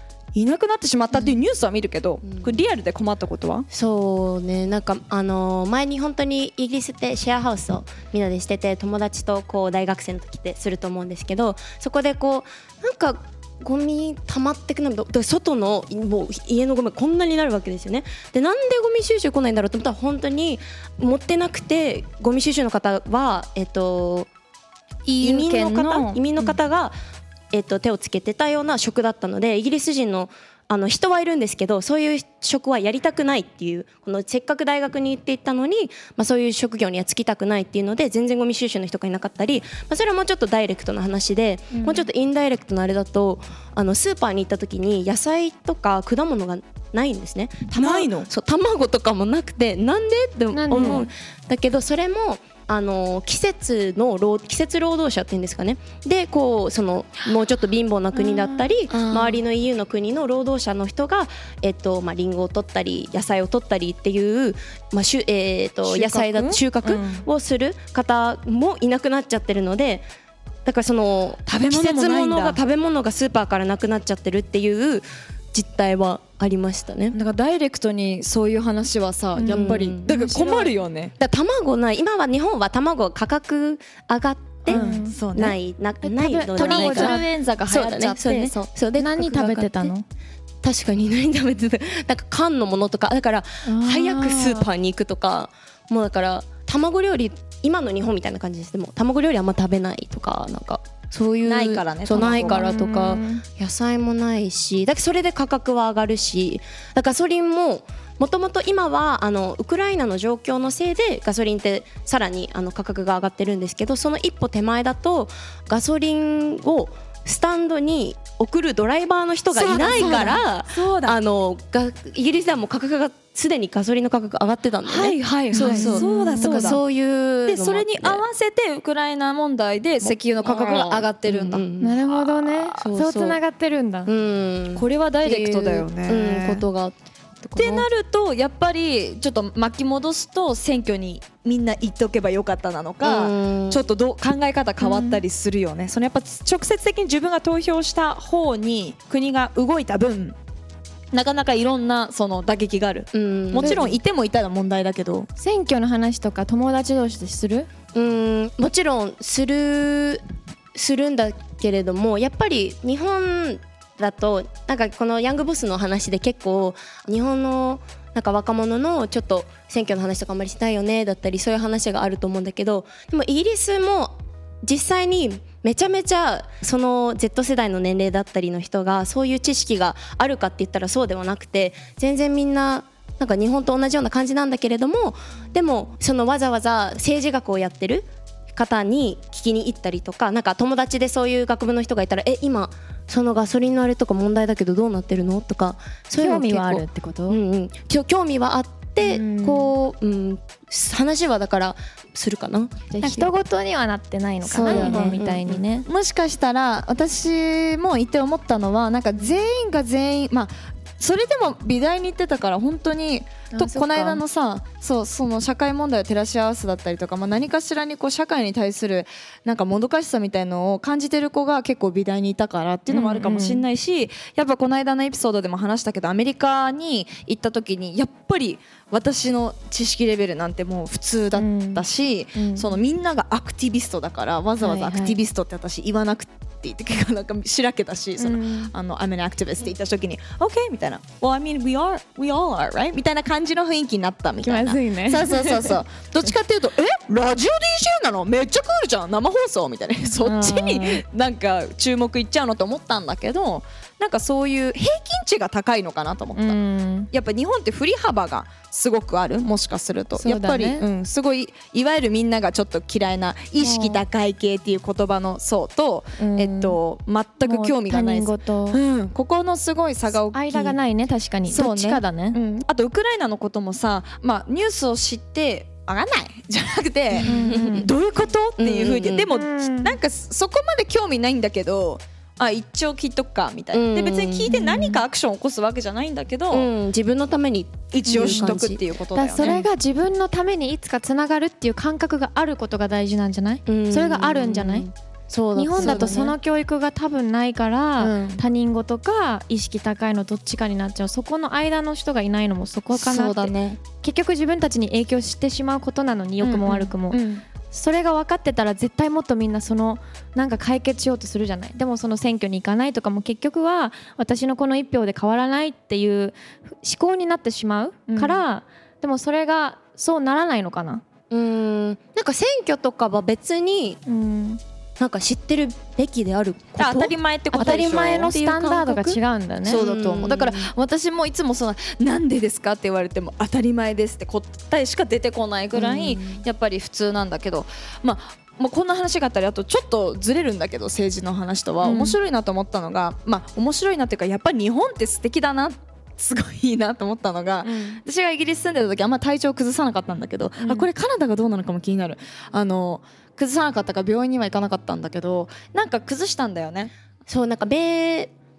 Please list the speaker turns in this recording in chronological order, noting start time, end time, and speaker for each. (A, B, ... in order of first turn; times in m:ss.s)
0:00.4-0:03.7 A
0:02.2-0:02.6 B
0:03.7-0:24.3 B
0:25.1-0:26.5 A
0:25.2-0:27.0 B
0:27.5-1:10.1 B
0:41.7-0:42.0 C
0:47.7-0:48.3 A
0:50.5-0:51.1 C
0:50.8-0:51.0 A
0:58.9-0:59.4 A
1:05.8-1:07.2 A
1:10.6-1:17.2 B
1:11.5-1:12.6 A
1:17.1-1:21.1 A
1:19.4-1:20.7 C
1:19.5-1:20.1 B
1:21.2-1:29.9 B
1:24.7-1:25.2 C
1:24.7-1:25.6 A
1:26.0-1:27.3 C
1:26.6-1:28.7 A
1:29.0-1:30.0 C
1:30.6-2:08.2 B
1:33.6-1:34.7 C
1:41.4-1:42.7 A
1:42.4-1:43.4 C
1:59.6-2:01.2 A
2:04.8-2:06.8 A
2:05.6-2:06.8 C
2:07.5-2:12.8 A
2:10.0-2:12.0 B
2:11.8-2:14.1 C
2:12.8-2:13.4 B
2:14.1-2:17.9 B
2:14.8-2:16.6 A
2:17.6-2:30.4 A
2:23.0-2:23.8 B
2:24.8-2:25.2 C
2:31.1-2:35.3 A
2:33.1-2:34.0 B
2:35.4-2:37.7 C
2:37.9-3:23.3 B
3:16.2-3:17.4 C
3:19.0-3:19.7 C
3:22.9-3:25.9 C
3:24.5-3:25.6 B
3:24.5-3:25.2 A
3:25.9-4:16.6 A
3:33.5-3:34.2 C
3:42.9-3:43.6 C
3:51.4-3:52.8 C
3:54.6-3:55.2 C
3:58.2-3:58.7 C
4:04.4-4:05.8 C
4:10.2-4:11.0 C
4:16.4-4:17.1 C
4:17.1-4:30.8 A
4:20.2-4:20.8 C
4:23.6-4:24.0 C
4:26.2-4:26.8 C
4:27.4-4:28.8 C
4:30.3-4:32.4 C
4:31.5-4:46.7 A
4:37.2-4:37.9 B
4:37.2-4:37.9 C
4:38.6-4:39.3 B
4:39.3-4:40.0 C
4:43.7-4:44.8 B
4:46.5-4:48.8 B
4:47.9-4:49.6 A
4:48.1-4:48.5 C
4:49.1-4:54.9 C
4:49.4-4:49.7 B
4:53.7-4:56.3 B
4:55.6-5:21.0 C
4:55.8-4:56.4 A
4:58.0-4:58.4 A
5:03.0-5:03.8 A
5:06.4-5:07.4 A
5:18.1-5:18.4 A
5:21.3-5:24.0 B
5:24.1-5:24.6 C
5:25.0-5:29.2 B
5:26.8-5:28.4 A
5:27.5-5:29.8 C
5:29.6-5:56.9 A
5:29.7-5:30.7 B
5:35.7-5:36.4 B
5:41.8-5:42.2 C
5:47.6-5:48.0 C
5:50.6-5:50.9 C
5:57.3-5:58.3 B